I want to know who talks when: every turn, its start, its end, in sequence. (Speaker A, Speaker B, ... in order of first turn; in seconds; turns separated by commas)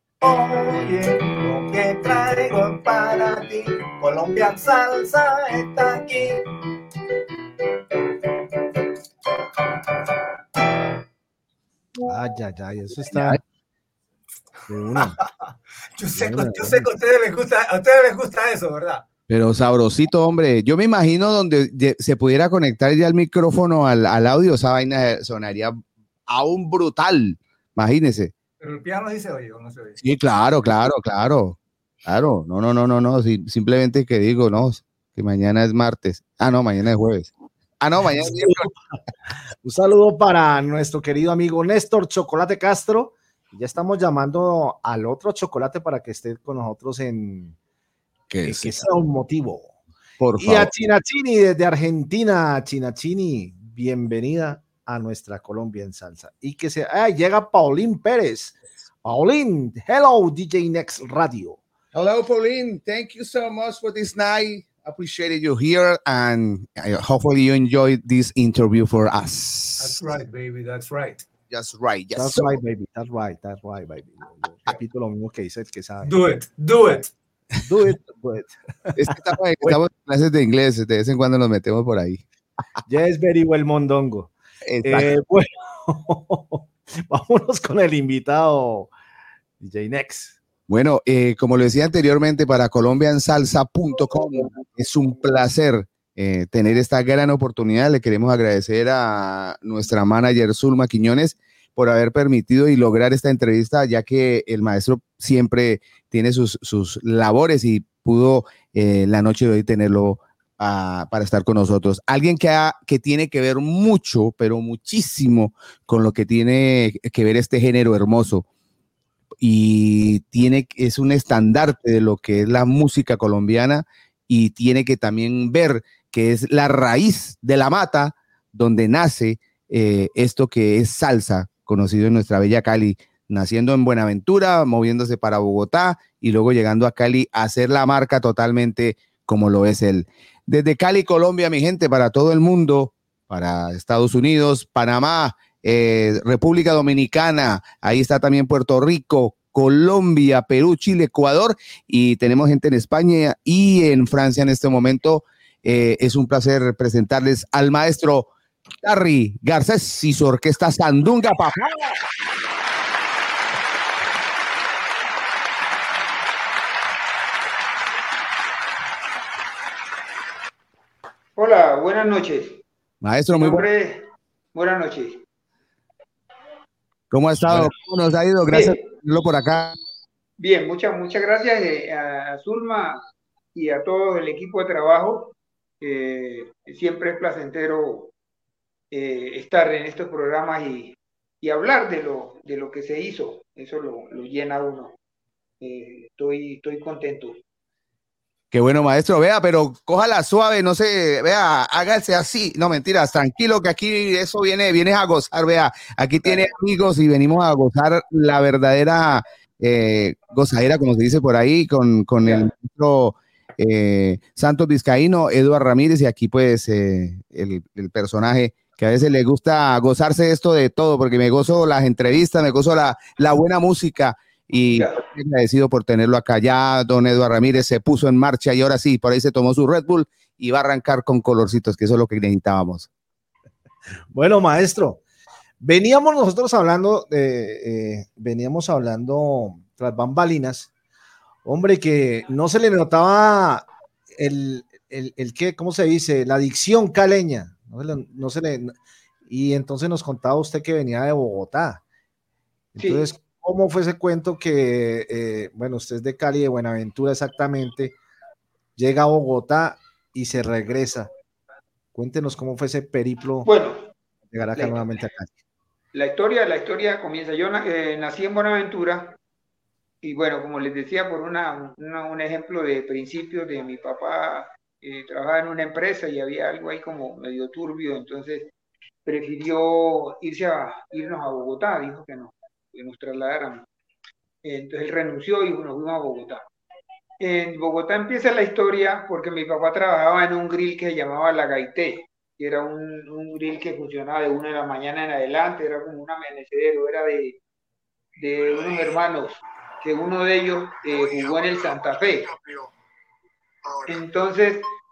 Speaker A: 0.2-6.4, Speaker B: 12.1-13.4, Speaker B: 14.7-15.2, Speaker A: 16.0-19.0, Speaker B: 16.1-16.9, Speaker C: 19.3-28.3, Speaker A: 28.6-30.0, Speaker C: 30.0-38.7, Speaker B: 38.1-38.9, Speaker B: 39.6-47.5, Speaker C: 48.3-48.8, Speaker B: 48.5-49.7, Speaker C: 50.2-50.7, Speaker B: 50.4-61.6, Speaker C: 61.9-70.1, Speaker A: 69.8-71.2, Speaker C: 71.5-72.5, Speaker B: 72.1-76.1, Speaker A: 76.0-77.1, Speaker B: 77.6-79.8, Speaker C: 79.0-82.2, Speaker B: 82.9-84.3, Speaker C: 84.7-85.1, Speaker B: 84.8-88.9, Speaker B: 89.6-90.4, Speaker C: 90.7-118.5, Speaker C: 119.4-158.3, Speaker C: 158.8-162.0, Speaker D: 171.3-172.6, Speaker C: 173.0-173.7, Speaker D: 173.3-175.2, Speaker C: 177.1-179.8, Speaker D: 178.5-178.8, Speaker D: 180.4-183.0, Speaker D: 183.5-188.1, Speaker D: 188.9-194.9, Speaker D: 195.6-197.4, Speaker C: 198.5-232.9, Speaker D: 206.2-206.5, Speaker D: 212.2-212.5, Speaker B: 234.1-235.0, Speaker B: 235.6-240.7, Speaker B: 241.4-248.7, Speaker B: 249.3-251.8, Speaker B: 252.7-258.0, Speaker D: 252.8-253.1, Speaker B: 258.8-261.1, Speaker B: 261.9-263.5, Speaker D: 263.4-263.9, Speaker B: 264.3-265.3, Speaker D: 264.5-264.9, Speaker D: 265.9-269.1, Speaker D: 270.0-278.5, Speaker D: 279.0-283.6, Speaker D: 284.4-286.4, Speaker D: 287.2-297.4, Speaker D: 298.2-302.3, Speaker D: 303.9-304.7